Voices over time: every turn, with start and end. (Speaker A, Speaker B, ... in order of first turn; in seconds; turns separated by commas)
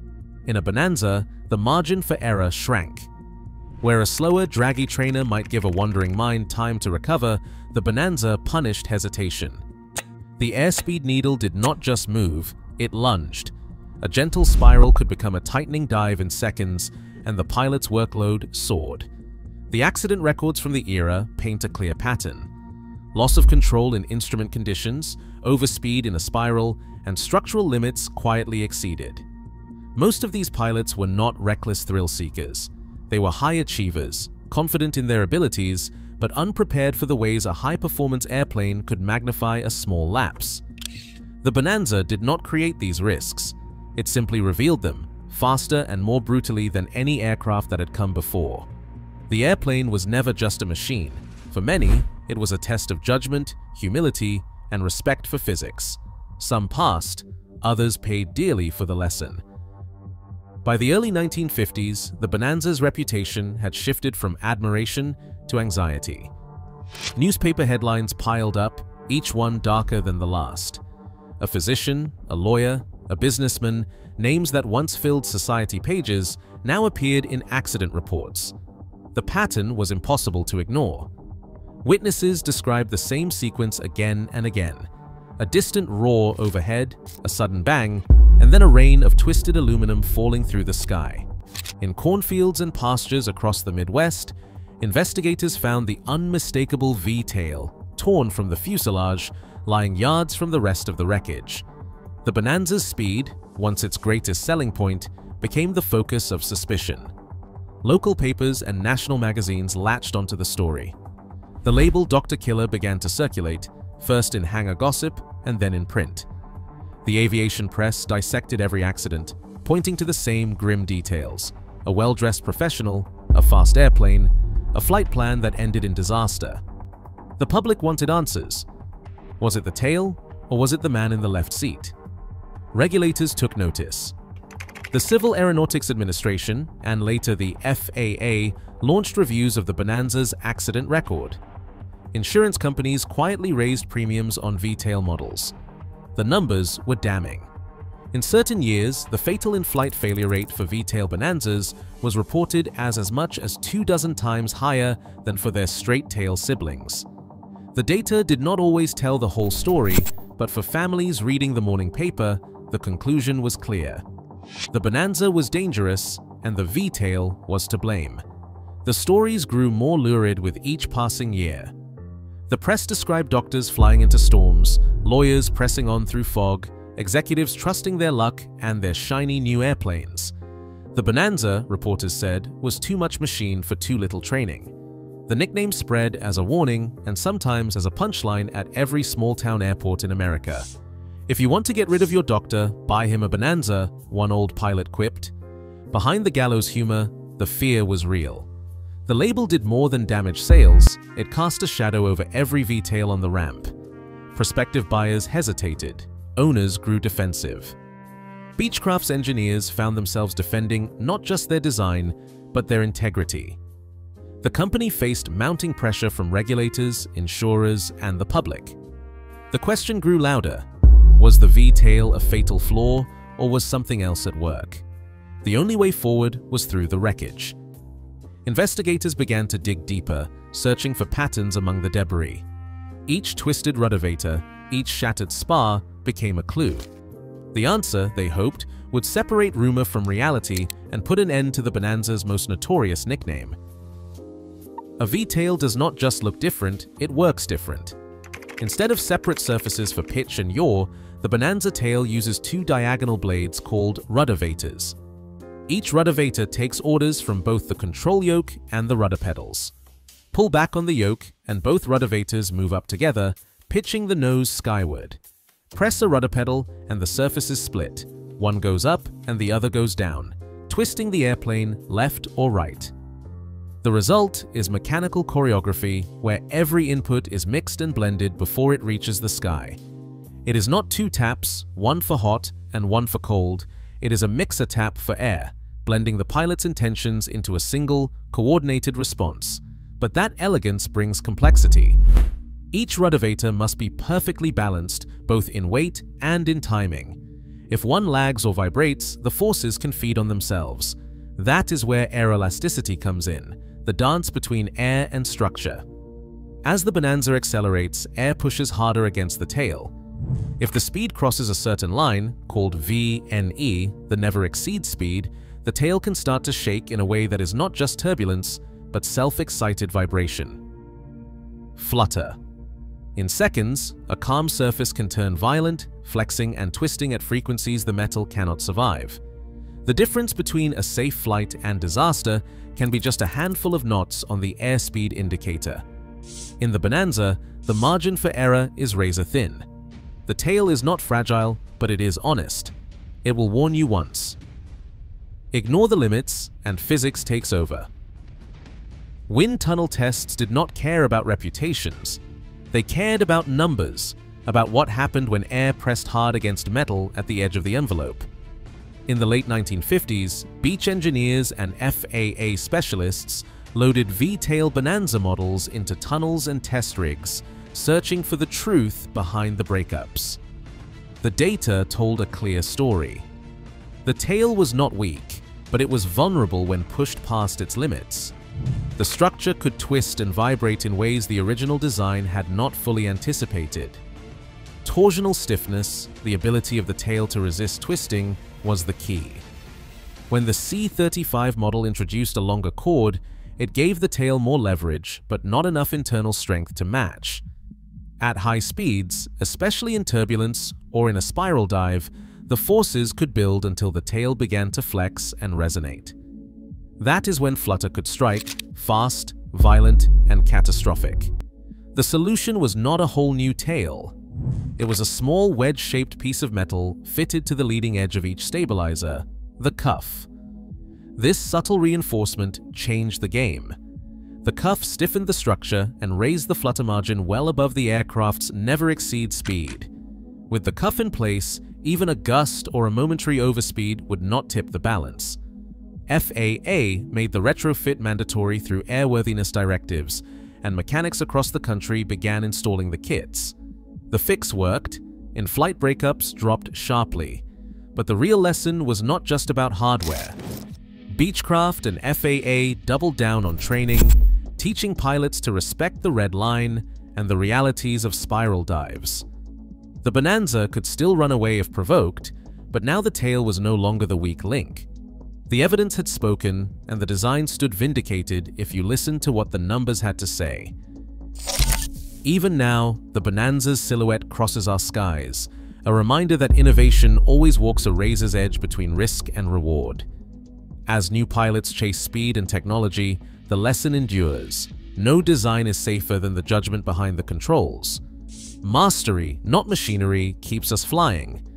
Speaker A: 0.5-3.1, Speaker A: 3.8-9.6, Speaker A: 10.4-19.1, Speaker A: 19.7-22.5, Speaker A: 23.1-29.2, Speaker A: 29.9-40.6, Speaker A: 41.4-48.7, Speaker A: 49.3-59.4, Speaker A: 60.6-66.3, Speaker A: 67.2-70.8, Speaker A: 71.4-78.5, Speaker A: 79.1-81.1, Speaker A: 81.8-91.3, Speaker A: 91.8-101.6, Speaker A: 102.2-107.1, Speaker A: 107.8-111.0, Speaker A: 111.6-116.3, Speaker A: 117.0-126.6, Speaker A: 127.4-128.7, Speaker A: 129.4-131.9, Speaker A: 132.7-134.1, Speaker A: 134.9-141.4, Speaker A: 142.1-145.5, Speaker A: 146.2-147.5, Speaker A: 148.1-157.1, Speaker A: 157.8-164.0, Speaker A: 164.7-168.2, Speaker A: 168.8-171.7, Speaker A: 172.5-180.3, Speaker A: 180.9-184.7, Speaker A: 185.3-190.7, Speaker A: 191.3-195.3, Speaker A: 195.9-198.5, Speaker A: 199.1-203.7, Speaker A: 204.3-207.8, Speaker A: 208.6-213.6, Speaker A: 214.4-218.8, Speaker A: 219.5-220.7, Speaker A: 221.2-224.8, Speaker A: 225.4-227.6, Speaker A: 228.4-232.4, Speaker A: 233.1-236.9, Speaker A: 237.5-243.6, Speaker A: 245.0-248.0, Speaker A: 248.6-255.0, Speaker A: 255.7-259.7, Speaker A: 260.3-265.2, Speaker A: 265.7-272.9, Speaker A: 273.8-279.8, Speaker A: 280.4-292.0, Speaker A: 292.7-297.2, Speaker A: 297.7-305.8, Speaker A: 306.6-309.9, Speaker A: 310.6-320.6, Speaker A: 321.8-322.4, Speaker A: 323.1-329.2, Speaker A: 329.9-335.8, Speaker A: 336.6-339.7, Speaker A: 340.3-342.7, Speaker A: 343.2-344.4, Speaker A: 345.5-347.9, Speaker A: 349.3-352.2, Speaker A: 352.7-358.3, Speaker A: 359.1-370.4, Speaker A: 371.2-373.3, Speaker A: 374.1-378.3, Speaker A: 379.0-384.0, Speaker A: 384.8-389.4, Speaker A: 390.3-397.4, Speaker A: 398.2-406.1, Speaker A: 407.0-411.3, Speaker A: 411.9-414.1, Speaker A: 414.8-420.3, Speaker A: 421.2-423.8, Speaker A: 424.4-429.9, Speaker A: 430.5-435.4, Speaker A: 436.1-443.6, Speaker A: 444.1-450.4, Speaker A: 451.1-459.2, Speaker A: 460.0-464.9, Speaker A: 465.5-470.7, Speaker A: 472.2-480.1, Speaker A: 480.9-488.0, Speaker A: 488.6-491.4